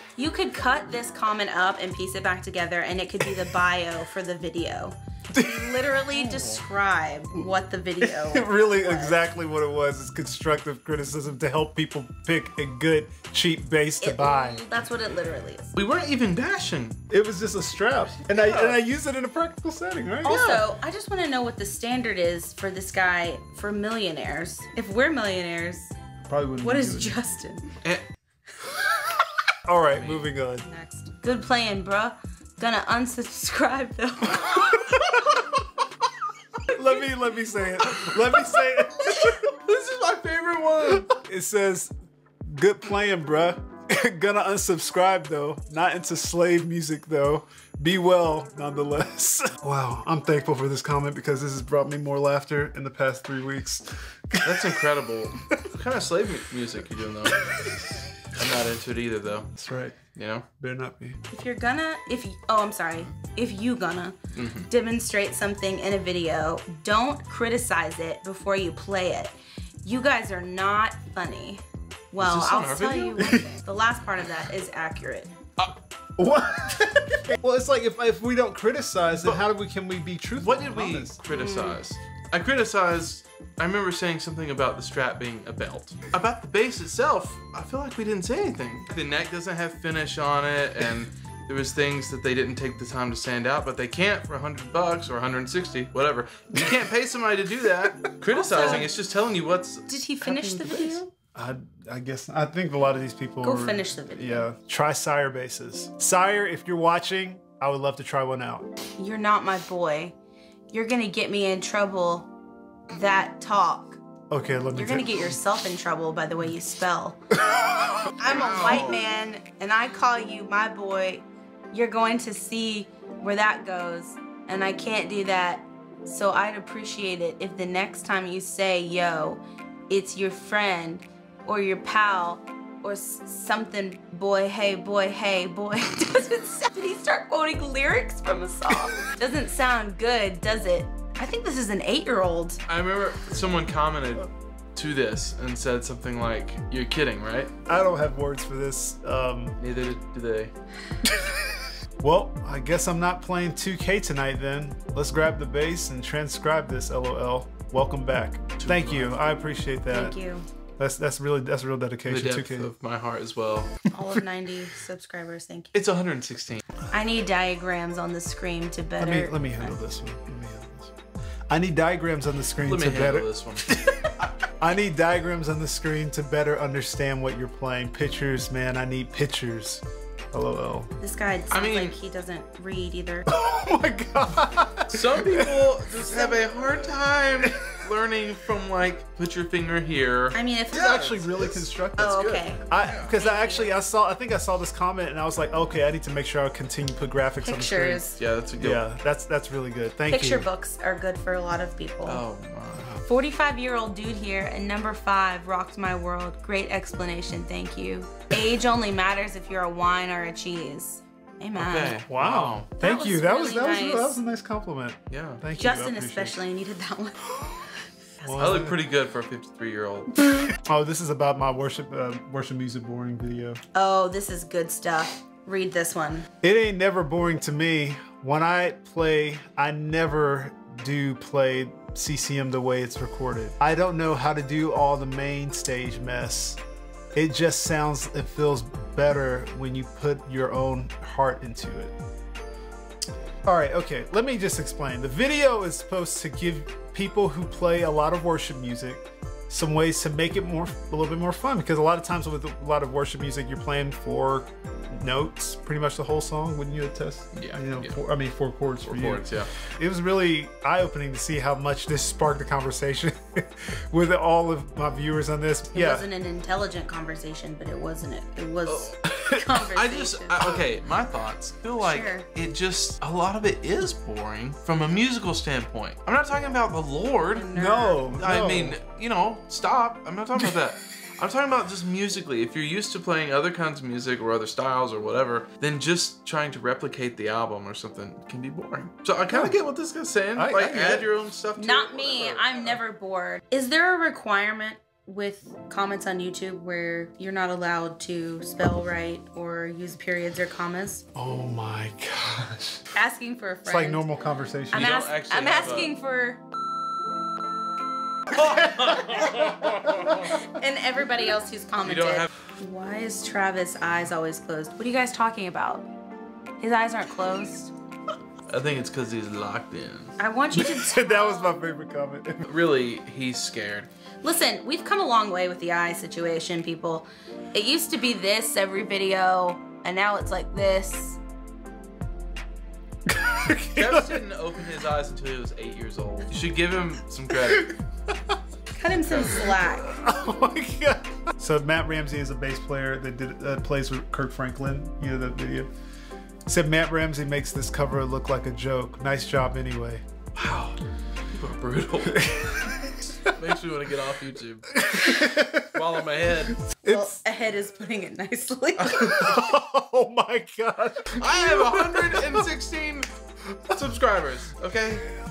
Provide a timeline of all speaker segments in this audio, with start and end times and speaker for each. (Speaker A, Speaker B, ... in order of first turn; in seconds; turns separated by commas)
Speaker A: 0.2-9.2, Speaker B: 5.3-5.7, Speaker C: 6.1-6.6, Speaker B: 8.0-14.6, Speaker A: 14.0-15.7, Speaker C: 15.7-17.0, Speaker B: 17.1-20.5, Speaker C: 18.1-18.8, Speaker A: 20.2-25.9, Speaker C: 20.3-20.6, Speaker B: 26.2-27.2, Speaker A: 26.6-27.7, Speaker B: 29.6-30.6, Speaker C: 29.9-30.3, Speaker A: 30.6-35.4, Speaker B: 36.7-39.3, Speaker C: 39.2-41.1, Speaker B: 41.1-41.9, Speaker B: 42.4-54.8, Speaker C: 54.4-57.5, Speaker B: 57.4-58.0, Speaker C: 58.3-59.5, Speaker B: 59.5-60.0, Speaker C: 60.1-60.5, Speaker B: 60.6-61.2, Speaker A: 61.3-64.1, Speaker C: 64.3-64.7, Speaker A: 64.7-75.3, Speaker C: 72.2-73.4, Speaker B: 76.2-81.2, Speaker C: 80.3-99.9, Speaker A: 81.3-81.8, Speaker B: 98.0-98.9, Speaker A: 98.3-98.9, Speaker A: 99.9-101.1, Speaker B: 100.2-108.7, Speaker A: 103.4-104.5, Speaker A: 109.0-110.1, Speaker A: 110.7-112.3, Speaker A: 112.9-114.0, Speaker B: 114.3-115.4, Speaker A: 114.7-117.4, Speaker B: 117.4-118.1, Speaker A: 118.1-142.6, Speaker C: 118.2-119.0, Speaker C: 142.7-147.5, Speaker B: 147.7-149.6, Speaker C: 149.6-150.5, Speaker B: 152.0-160.2, Speaker C: 158.6-159.3, Speaker A: 159.9-160.4, Speaker B: 160.8-162.7, Speaker C: 162.1-163.7, Speaker A: 163.9-165.7, Speaker C: 165.7-166.6, Speaker A: 166.9-169.8, Speaker B: 169.0-170.9, Speaker B: 171.5-180.9, Speaker C: 172.6-173.7, Speaker A: 181.0-183.3, Speaker C: 181.5-181.9, Speaker B: 183.3-186.0, Speaker C: 184.9-193.1, Speaker B: 187.4-187.7, Speaker A: 190.3-191.0, Speaker B: 190.7-198.1, Speaker A: 192.0-193.8, Speaker A: 197.4-198.2, Speaker C: 198.2-198.8, Speaker B: 198.6-200.5, Speaker A: 200.1-202.2, Speaker C: 202.0-202.9, Speaker A: 203.0-212.0, Speaker C: 211.6-212.7, Speaker B: 212.1-216.4, Speaker A: 212.8-214.2, Speaker C: 215.1-215.4, Speaker A: 215.5-217.6, Speaker B: 218.2-218.8, Speaker C: 218.3-220.2, Speaker B: 220.6-223.6, Speaker A: 223.7-226.3, Speaker B: 226.4-236.6, Speaker B: 237.1-241.9, Speaker B: 243.4-266.1, Speaker C: 257.3-258.0, Speaker C: 258.8-259.5, Speaker A: 265.7-270.7, Speaker C: 268.7-268.9, Speaker C: 269.7-277.5, Speaker A: 271.8-272.3, Speaker A: 277.3-278.1, Speaker B: 277.5-278.8, Speaker C: 278.1-292.8, Speaker B: 289.3-289.6, Speaker B: 290.4-291.1, Speaker A: 291.6-301.1, Speaker B: 301.1-302.9, Speaker A: 302.9-304.1, Speaker B: 303.7-305.0, Speaker A: 304.7-306.4, Speaker C: 304.7-305.9, Speaker C: 308.3-310.2, Speaker A: 309.0-309.5, Speaker A: 310.1-315.9, Speaker C: 311.9-312.3, Speaker A: 316.6-317.7, Speaker C: 318.5-320.1, Speaker A: 320.2-321.6, Speaker B: 320.5-322.5, Speaker C: 322.4-323.9, Speaker A: 324.2-331.2, Speaker B: 333.1-334.2, Speaker C: 333.7-337.7, Speaker B: 337.4-338.4, Speaker A: 338.8-340.0, Speaker C: 339.0-339.5, Speaker B: 339.3-345.7, Speaker B: 346.5-350.0, Speaker C: 350.3-350.8, Speaker C: 351.3-352.7, Speaker B: 352.1-353.3, Speaker C: 353.2-356.6, Speaker B: 354.7-355.7, Speaker B: 356.6-357.1, Speaker A: 356.9-359.1, Speaker C: 358.8-359.5, Speaker B: 358.9-362.4, Speaker C: 361.2-365.1